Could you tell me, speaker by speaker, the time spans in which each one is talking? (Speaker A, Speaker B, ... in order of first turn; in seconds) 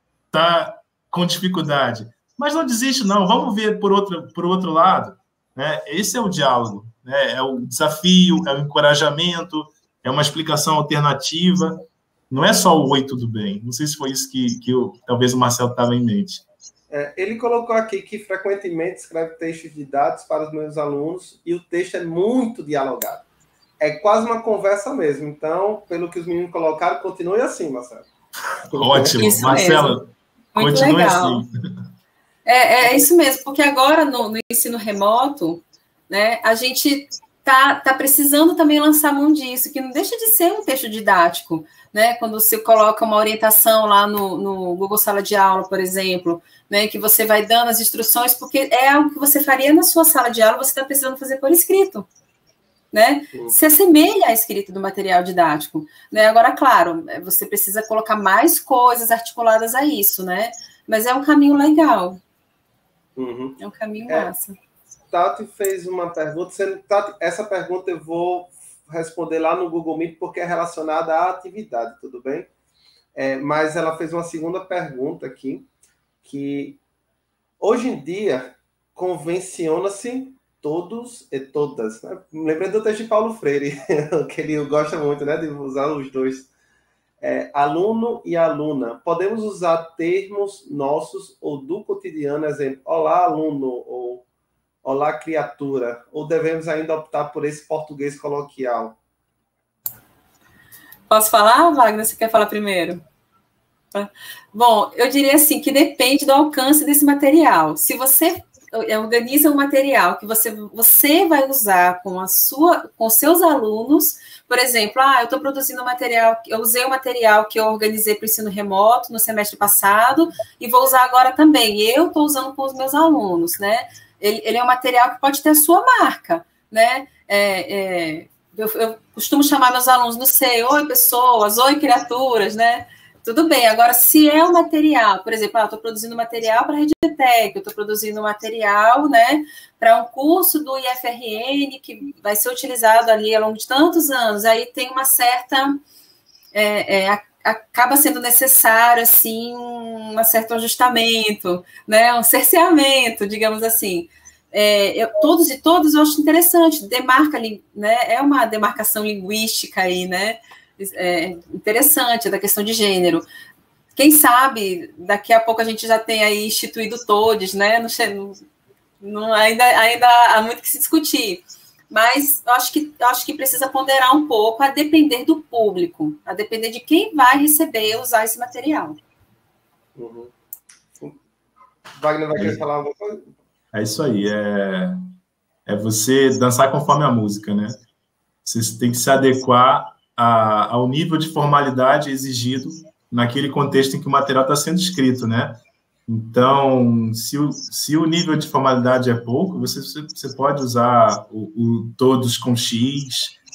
Speaker A: 0.3-16.4, 28.7-31.5, 182.4-182.6, 183.7-185.0, 185.7-187.8, 188.4-203.4
Speaker B: 16.9-23.3, 23.8-28.1, 28.7-29.6, 63.2-63.6, 65.1-72.5, 73.2-75.7, 76.2-76.8, 77.6-86.5, 87.2-94.3, 94.8-99.0, 180.0-180.3, 182.0-183.3
Speaker C: 29.1-30.0, 30.6-31.4, 32.5-52.1, 52.9-62.2, 63.6-64.6, 101.1-103.0, 103.9-145.8, 146.5-163.3, 164.0-168.4, 169.0-179.0